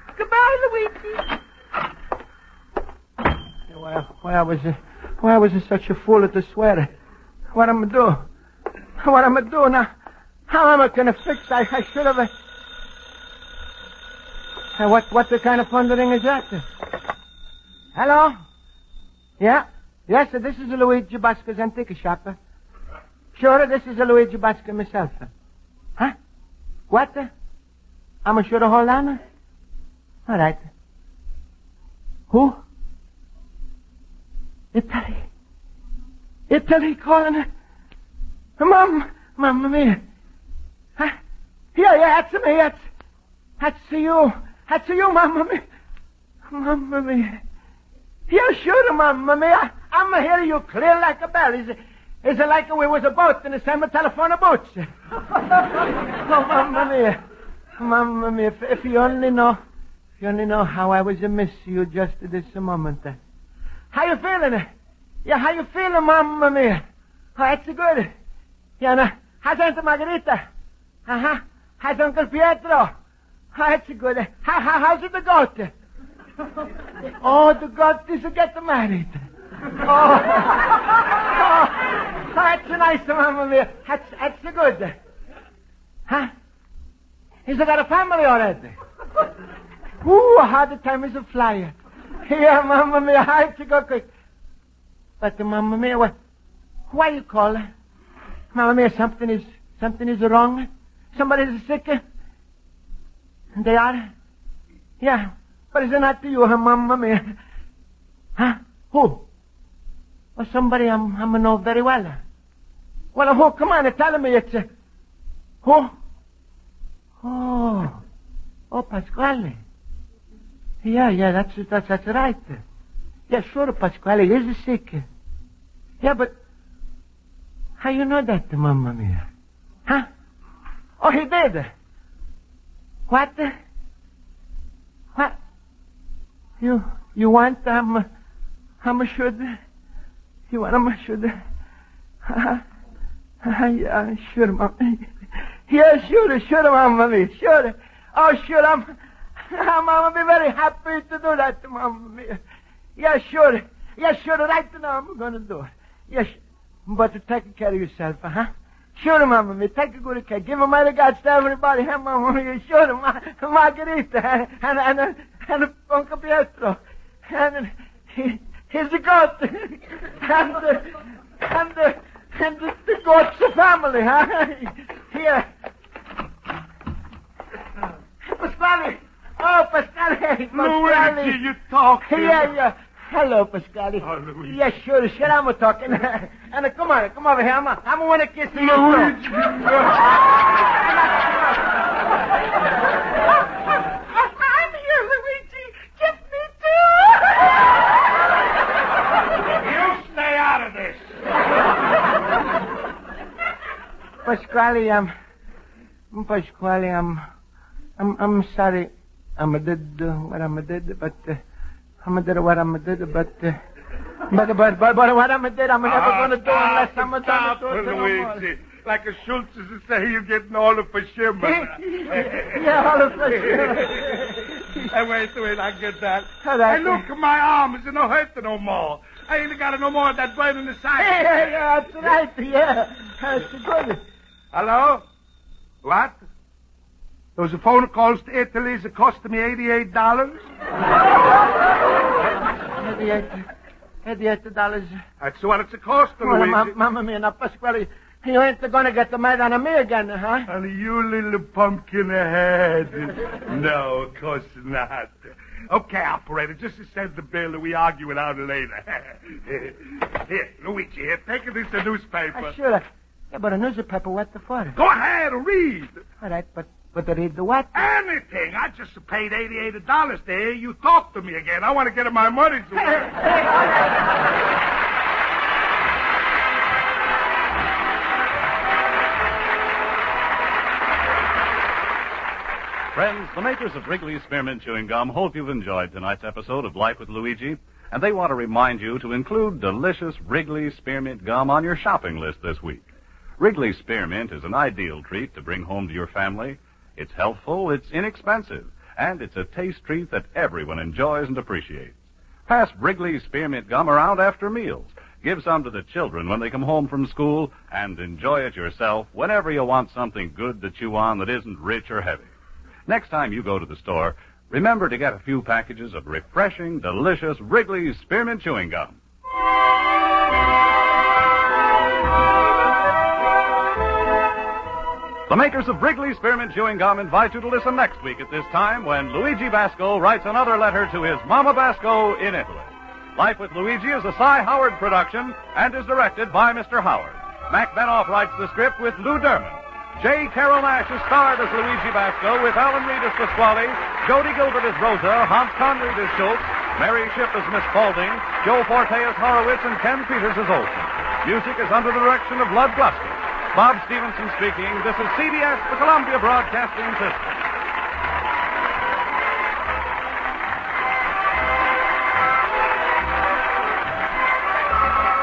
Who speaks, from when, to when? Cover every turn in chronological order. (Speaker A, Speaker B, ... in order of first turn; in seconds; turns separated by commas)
Speaker A: 0.2-1.3, Speaker B: 3.7-6.9, Speaker B: 7.5-8.2, Speaker B: 9.0-9.9, Speaker B: 10.5-12.3, Speaker B: 14.8-16.6, Speaker B: 17.9-18.4, Speaker B: 19.4-22.4, Speaker B: 23.3-25.3, Speaker B: 26.9-27.3, Speaker B: 28.2-29.2, Speaker B: 30.2-30.7, Speaker B: 32.3-32.6, Speaker B: 34.7-35.3, Speaker B: 36.5-37.5, Speaker B: 38.6-40.0, Speaker B: 41.7-42.8, Speaker B: 43.6-45.6, Speaker B: 46.5-47.4, Speaker B: 48.3-54.9, Speaker B: 56.1-57.2, Speaker B: 57.8-59.6, Speaker B: 60.2-63.2, Speaker B: 63.9-64.7, Speaker B: 65.2-66.8, Speaker B: 67.3-68.1, Speaker B: 68.8-70.4, Speaker B: 71.0-72.9, Speaker B: 73.5-75.7, Speaker B: 77.2-79.2, Speaker B: 79.8-85.0, Speaker B: 87.5-88.7, Speaker B: 90.0-94.1, Speaker B: 95.2-96.1, Speaker B: 96.9-97.6, Speaker B: 98.5-102.0, Speaker B: 103.5-104.1, Speaker B: 105.0-107.3, Speaker B: 108.4-109.2, Speaker B: 110.3-112.2, Speaker B: 113.1-114.7, Speaker B: 115.6-115.9, Speaker B: 117.2-118.0, Speaker B: 118.7-119.6, Speaker B: 120.8-122.6, Speaker B: 123.3-125.0, Speaker B: 126.0-126.3, Speaker B: 127.8-129.3, Speaker B: 131.0-131.7, Speaker B: 133.1-133.5, Speaker B: 136.6-138.1, Speaker B: 138.8-139.6, Speaker B: 140.5-141.4, Speaker B: 142.2-142.6, Speaker B: 143.4-145.1, Speaker B: 145.7-148.9, Speaker B: 149.5-152.4, Speaker B: 153.0-175.5, Speaker B: 178.2-181.4, Speaker C: 180.5-182.5, Speaker B: 182.1-189.2, Speaker C: 184.0-184.6, Speaker C: 188.5-190.1, Speaker A: 194.2-197.4, Speaker C: 199.6-201.1, Speaker B: 204.2-205.1, Speaker B: 206.1-207.2, Speaker B: 208.0-211.4, Speaker B: 212.0-213.6, Speaker B: 214.3-218.4, Speaker C: 215.8-231.7, Speaker B: 221.4-224.8, Speaker B: 226.4-227.0, Speaker B: 231.0-234.0, Speaker C: 234.5-235.0, Speaker C: 235.8-236.2, Speaker C: 237.3-240.4, Speaker B: 242.8-243.4, Speaker B: 244.0-245.0, Speaker C: 245.2-246.7, Speaker B: 246.2-250.5, Speaker C: 250.5-262.5, Speaker B: 262.3-264.8, Speaker C: 264.8-266.0, Speaker B: 266.2-267.8, Speaker C: 267.7-273.2, Speaker B: 272.9-273.6, Speaker D: 282.9-292.8, Speaker D: 293.4-301.9, Speaker D: 302.5-312.3, Speaker D: 312.9-319.0, Speaker D: 325.3-357.4